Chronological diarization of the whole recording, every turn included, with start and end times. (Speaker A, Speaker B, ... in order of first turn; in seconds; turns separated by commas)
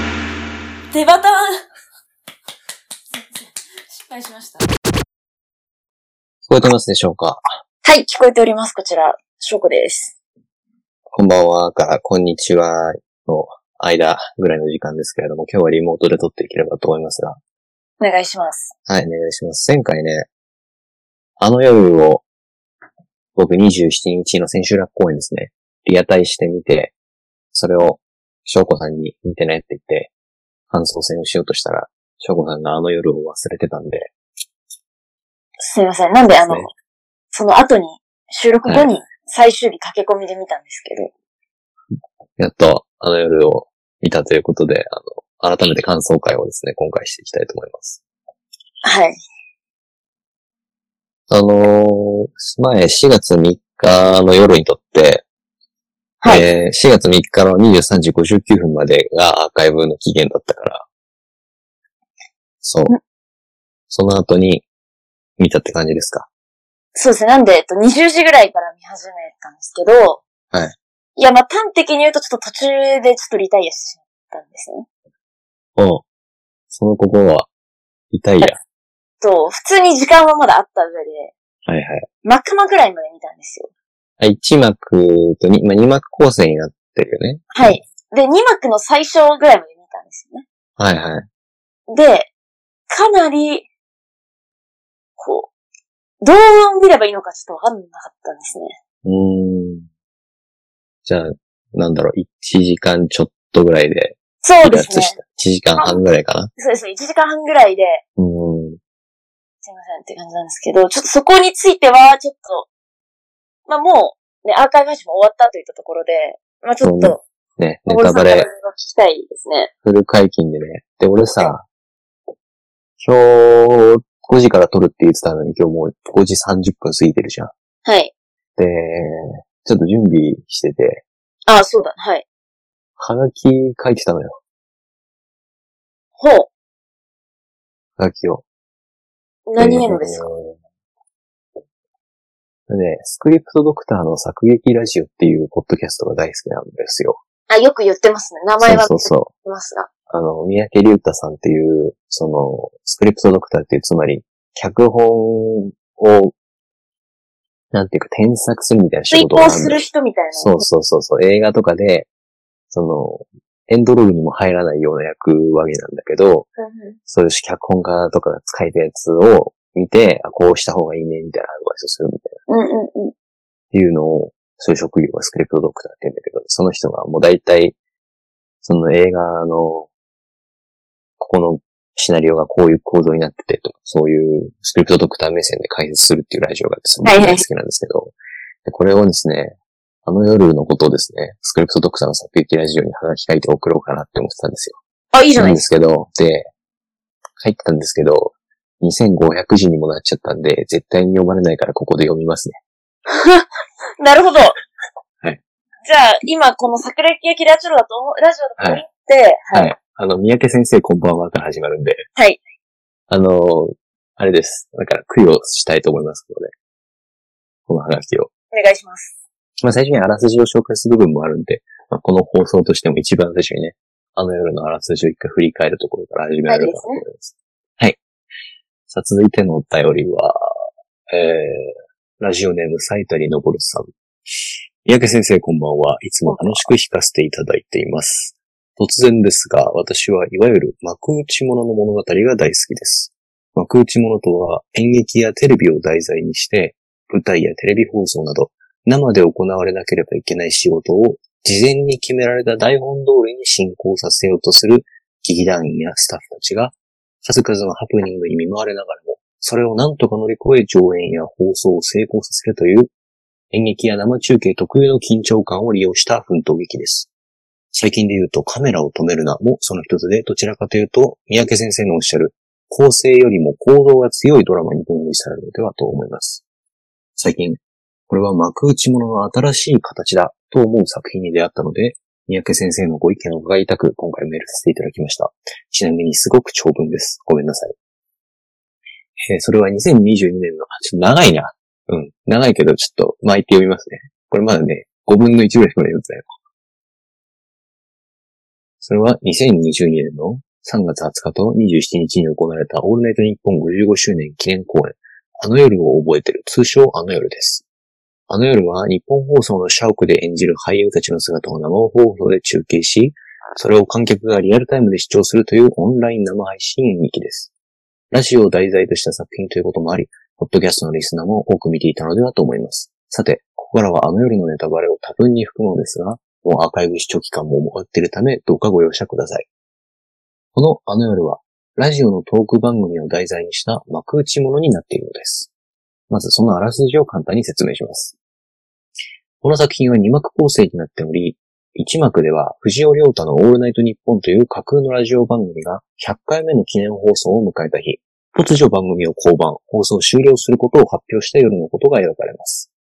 Speaker A: 0.9-1.6, Speaker A: 3.3-4.7, Speaker B: 6.5-7.4, Speaker A: 7.8-10.1, Speaker B: 11.1-17.4, Speaker A: 18.0-18.7, Speaker B: 18.9-20.3, Speaker B: 21.4-22.2, Speaker B: 23.4-26.9, Speaker B: 27.5-30.1, Speaker B: 30.7-34.1, Speaker A: 35.6-36.7, Speaker B: 36.3-36.7, Speaker A: 37.3-41.1, Speaker B: 42.4-48.0, Speaker A: 48.8-49.2, Speaker B: 51.3-55.2, Speaker A: 56.2-56.5, Speaker B: 56.2-60.8, Speaker B: 62.6-63.0, Speaker B: 63.9-64.6, Speaker B: 65.4-66.3, Speaker A: 66.9-70.2, Speaker A: 71.2-74.9, Speaker B: 75.8-76.0, Speaker B: 76.7-77.5, Speaker B: 78.1-78.6, Speaker A: 79.2-81.3, Speaker B: 81.7-82.0, Speaker A: 82.2-83.7, Speaker B: 84.2-87.8, Speaker A: 87.5-90.4, Speaker B: 90.8-91.3, Speaker A: 91.9-92.3, Speaker A: 92.9-93.7, Speaker A: 95.2-95.5, Speaker A: 96.2-98.8, Speaker B: 99.0-99.9, Speaker B: 101.0-106.5, Speaker A: 104.4-105.2, Speaker A: 105.7-106.0, Speaker A: 106.6-108.0, Speaker B: 108.2-108.8, Speaker A: 109.6-112.7, Speaker A: 113.7-117.2, Speaker B: 116.8-118.5, Speaker A: 117.9-119.7, Speaker B: 119.8-121.6, Speaker B: 123.0-127.5, Speaker A: 127.8-128.1, Speaker B: 128.6-131.0, Speaker A: 131.5-132.2, Speaker B: 133.0-134.4, Speaker A: 136.2-136.5, Speaker B: 138.0-138.4, Speaker A: 139.5-140.3, Speaker B: 139.6-140.6, Speaker B: 142.7-147.2, Speaker A: 147.5-149.9, Speaker B: 148.6-149.3, Speaker B: 150.1-156.3, Speaker B: 157.7-162.1, Speaker A: 159.1-160.7, Speaker B: 162.7-166.5, Speaker A: 166.6-167.0, Speaker B: 167.1-172.3, Speaker A: 172.5-173.1, Speaker B: 173.7-177.8, Speaker B: 178.6-179.9, Speaker B: 181.2-194.8, Speaker A: 187.0-187.4, Speaker A: 195.1-195.6, Speaker B: 195.4-196.5, Speaker B: 197.4-202.6, Speaker A: 203.1-203.5, Speaker A: 204.0-204.6, Speaker A: 205.8-209.7, Speaker B: 208.6-208.8, Speaker B: 209.5-212.0, Speaker B: 213.1-216.5, Speaker B: 217.7-218.3, Speaker A: 218.5-219.1, Speaker B: 219.6-228.0, Speaker A: 226.5-227.0, Speaker B: 228.9-230.4, Speaker B: 231.1-233.9, Speaker B: 234.8-262.9, Speaker A: 236.3-236.6, Speaker B: 263.5-267.1, Speaker B: 267.7-276.4, Speaker B: 277.1-287.7, Speaker B: 289.2-296.3, Speaker B: 298.8-307.6, Speaker B: 308.3-317.5, Speaker B: 318.1-329.5, Speaker B: 330.5-335.5, Speaker B: 336.1-338.1, Speaker B: 339.4-352.7